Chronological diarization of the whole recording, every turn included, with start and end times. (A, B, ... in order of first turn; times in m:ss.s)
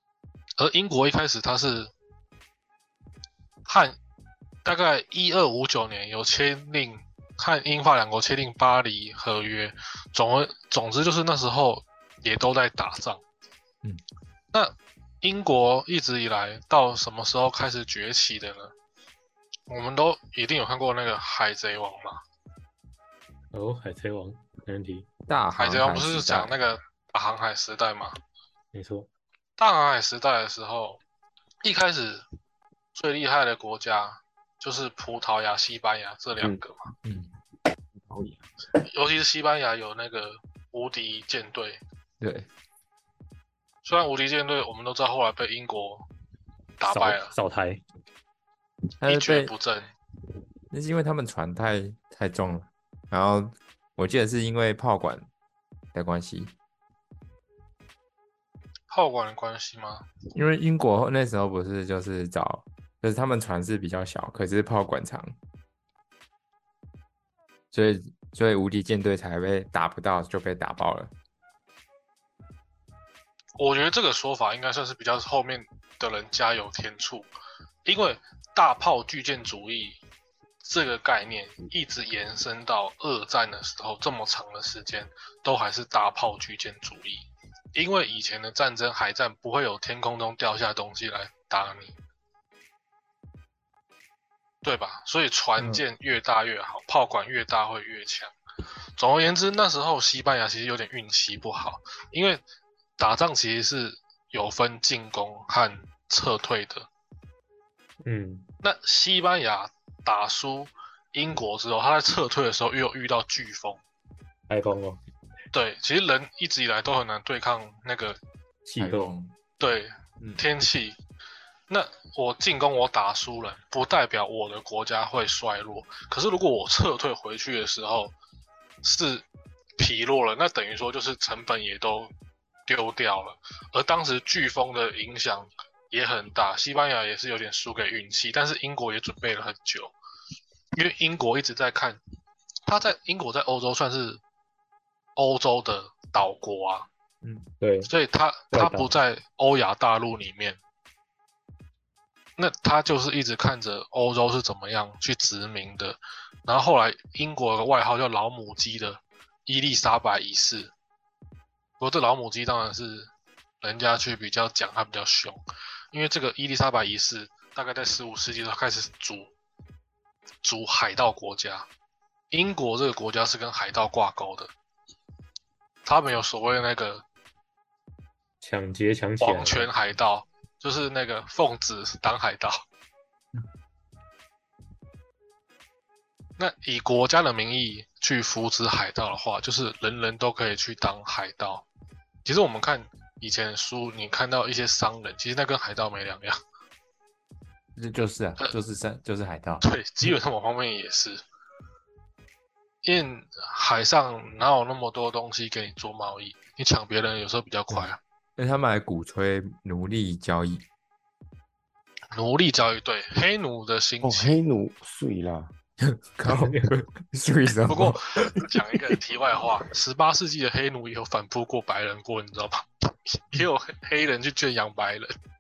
0:00.6-0:01.9 A
0:03.7-0:04.0 A
0:04.6-0:13.2 A
0:14.5-0:18.7 A
0:19.7-0:22.2 A
0:23.5-0:25.1 B
0:25.3-0:26.6 C
0:25.6-0:28.2 A
0:28.7-0:29.1 B
0:29.6-0:31.0 A
0:31.6-0:32.2 A
0:32.9-0:36.9 A
0:37.0-0:37.3 C
0:38.0-0:38.4 D
0:38.9-0:41.8 A
0:42.2-0:42.5 C
0:43.8-0:46.1 A
0:46.8-0:47.3 A
0:46.8-0:47.8 B
0:49.0-0:49.5 C
0:49.0-0:49.9 A
0:50.7-0:55.3 C
0:55.9-0:56.5 C
0:58.9-1:00.1 A
1:00.4-1:05.4 C
1:07.7-1:11.1 C
1:13.6-1:17.3 A
1:17.8-1:20.0 A
1:20.6-1:32.0 A
1:34.6-1:38.3 A
1:35.6-1:35.8 C
1:39.0-1:42.4 A
1:43.0-1:46.9 A
1:48.0-1:48.5 B
1:48.6-1:53.8 A
1:54.5-1:55.0 B
1:55.5-1:58.2 A
1:58.6-1:59.1 B
1:58.8-1:59.4 C
1:59.6-2:01.0 A
2:01.7-2:08.2 A
2:08.8-2:09.2 A
2:09.8-2:12.1 A
2:12.7-2:19.9 A
2:20.8-2:22.0 A
2:22.7-2:24.2 A
2:25.2-2:26.9 A
2:27.2-2:27.5 C
2:27.6-2:27.9 B
2:27.9-2:30.6 A
2:28.5-2:28.9 B
2:32.4-2:40.7 A
2:41.8-2:45.4 A
2:45.9-2:49.3 A
2:50.4-2:51.7 A
2:52.3-2:54.5 A
2:55.8-2:57.0 A
2:58.4-2:59.7 B
2:59.2-3:02.6 A
3:06.4-3:11.7 A
3:12.2-3:16.4 A
3:17.8-3:19.7 C
3:19.6-3:21.2 A
3:22.8-3:28.0 A
3:28.4-3:30.6 C
3:32.1-3:34.4 A
3:34.0-3:35.5 D
3:35.8-3:38.5 C
3:36.3-3:36.7 B
3:37.7-3:45.1 A